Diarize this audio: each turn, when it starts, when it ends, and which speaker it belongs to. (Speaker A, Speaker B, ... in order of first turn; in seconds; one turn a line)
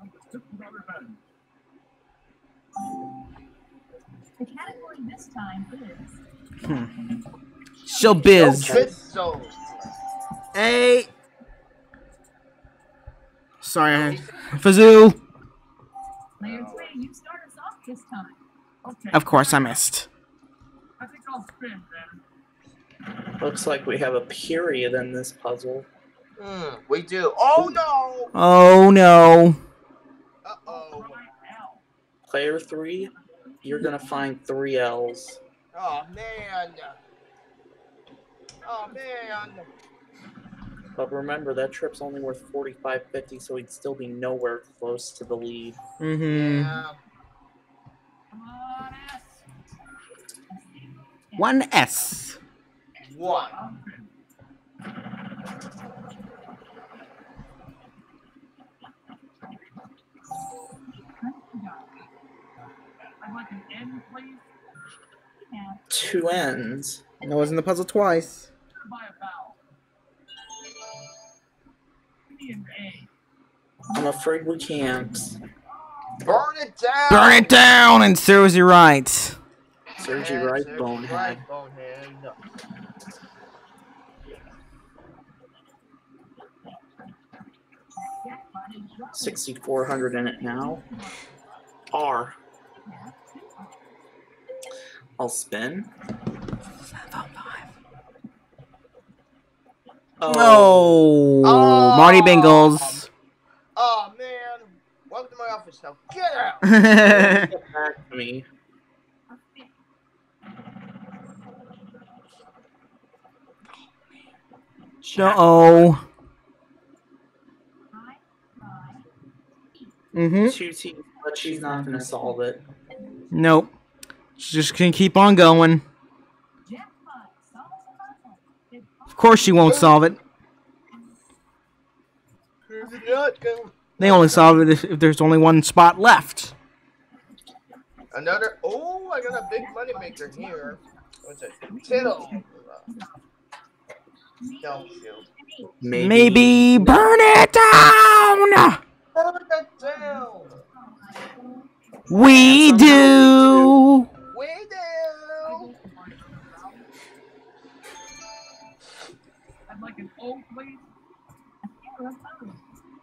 Speaker A: 4.4-6.1
Speaker B: 6.6-6.9
Speaker B: 7.8-8.8
Speaker A: 7.9-8.5
Speaker C: 8.4-8.9
Speaker D: 8.4-9.9
Speaker B: 10.5-11.1
Speaker B: 13.6-15.2
Speaker D: 13.9-14.3
Speaker A: 16.4-19.5
Speaker D: 16.4-17.0
Speaker B: 19.1-20.1
Speaker A: 21.3-21.9
Speaker C: 23.4-25.9
Speaker D: 26.4-28.3
Speaker B: 28.3-29.6
Speaker D: 30.4-31.2
Speaker C: 32.2-33.1
Speaker A: 33.5-34.2
Speaker C: 33.6-35.4
Speaker D: 35.7-37.0
Speaker D: 38.6-39.7
Speaker C: 41.0-45.8
Speaker B: 46.0-46.8
Speaker D: 46.3-47.0
Speaker A: 48.3-49.2
Speaker A: 50.5-51.4
Speaker B: 51.4-52.4
Speaker D: 53.0-53.6
Speaker A: 60.9-61.9
Speaker A: 63.3-64.4
Speaker A: 65.4-65.8
Speaker C: 65.9-67.0
Speaker B: 67.2-68.5
Speaker A: 69.0-69.5
Speaker A: 72.3-73.0
Speaker C: 73.9-75.4
Speaker D: 76.2-77.6
Speaker B: 77.1-79.4
Speaker D: 80.0-82.3
Speaker C: 80.0-81.4
Speaker A: 88.1-89.7
Speaker C: 89.1-90.8
Speaker A: 90.5-91.2
Speaker C: 91.9-92.3
Speaker A: 92.8-93.8
Speaker C: 95.2-95.9
Speaker B: 96.9-97.6
Speaker C: 100.2-100.9
Speaker B: 100.2-103.1
Speaker D: 101.4-103.0
Speaker D: 103.8-106.7
Speaker B: 106.6-107.5
Speaker C: 107.0-108.5
Speaker A: 109.3-109.7
Speaker C: 115.0-115.5
Speaker B: 115.1-116.0
Speaker A: 117.9-119.1
Speaker B: 120.1-120.5
Speaker C: 120.4-122.6
Speaker B: 123.3-123.7
Speaker B: 124.4-125.8
Speaker A: 126.7-129.8
Speaker B: 129.2-130.2
Speaker D: 129.6-130.0
Speaker D: 132.7-134.6
Speaker B: 134.0-136.5
Speaker D: 138.1-142.9
Speaker A: 139.9-140.8
Speaker A: 141.8-143.1
Speaker A: 144.4-144.8
Speaker D: 144.6-145.3
Speaker A: 145.4-145.7
Speaker C: 145.8-147.1
Speaker B: 145.9-148.8
Speaker D: 149.1-150.5
Speaker A: 150.8-152.5
Speaker B: 152.1-154.1
Speaker C: 152.3-153.7
Speaker D: 152.4-153.4
Speaker D: 154.3-155.7
Speaker A: 155.5-156.8
Speaker A: 159.7-160.8
Speaker A: 161.7-162.6